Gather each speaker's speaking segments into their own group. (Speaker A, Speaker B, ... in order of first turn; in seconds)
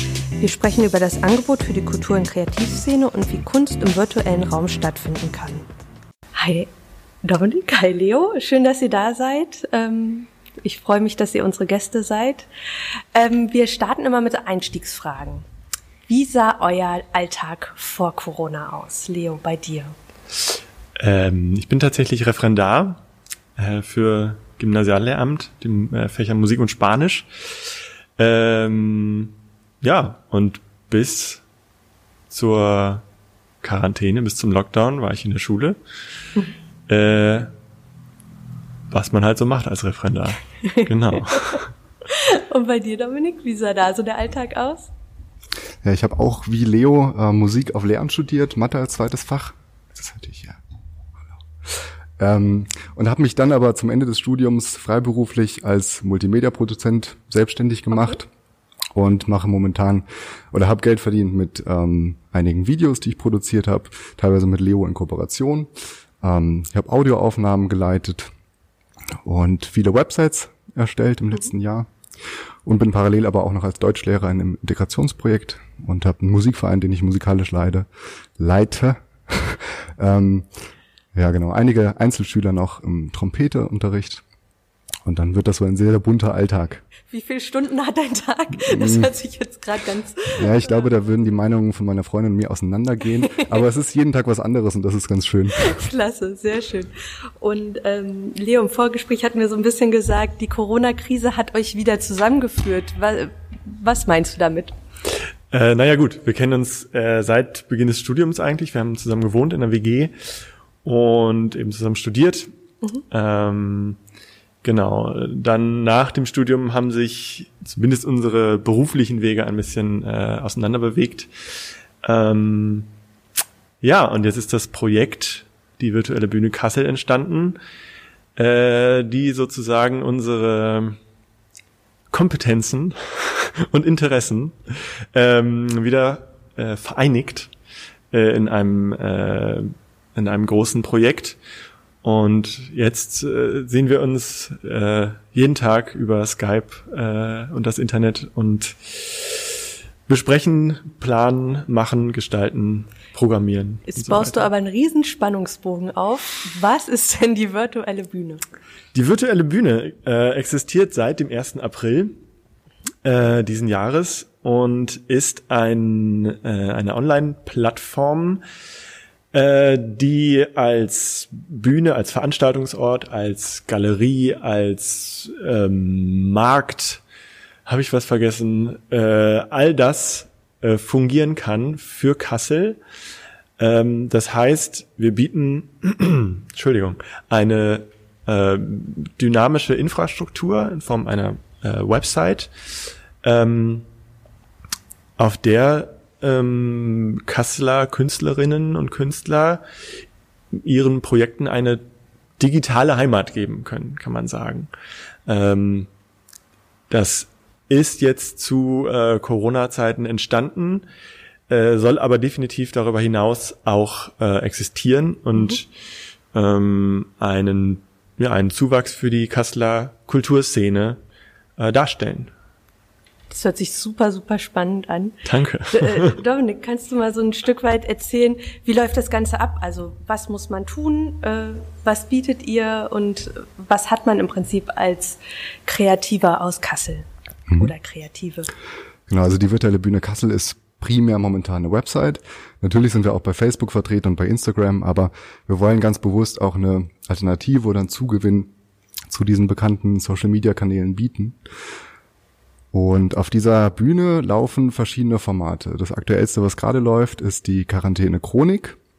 Speaker A: 0.4-5.7, 6.4-6.7, 7.2-12.5, 13.2-15.4, 16.1-19.9, 40.6-41.6, 42.1-44.9, 87.1-90.8, 95.6-104.8, 153.9-158.4, 223.3-225.2, 225.7-238.5
Speaker B: 21.0-23.0, 23.6-27.3, 28.2-31.4, 32.3-33.0, 33.6-35.8, 36.9-37.5, 38.9-41.7, 105.5-110.1, 110.8-112.5, 113.1-114.0, 114.6-121.3, 122.0-122.9, 123.8-127.6, 128.4-131.0, 132.1-137.5, 138.1-141.4, 142.0-154.5, 158.9-162.1, 163.0-168.4, 169.3-177.0, 177.7-182.8, 183.6-192.5, 193.2-193.9, 195.2-199.6, 200.5-201.8, 202.4-204.7, 205.3-205.9, 206.9-210.9, 211.5-215.7, 216.3-221.0, 221.6-222.3, 225.2-226.2
Speaker C: 45.8-50.6, 52.2-58.3, 59.0-65.7, 66.2-68.3, 69.2-71.9, 72.7-77.9, 78.4-80.5, 81.1-84.2, 85.0-86.8, 88.7-89.1, 90.3-95.6, 239.1-248.5, 249.1-251.4, 252.7-258.8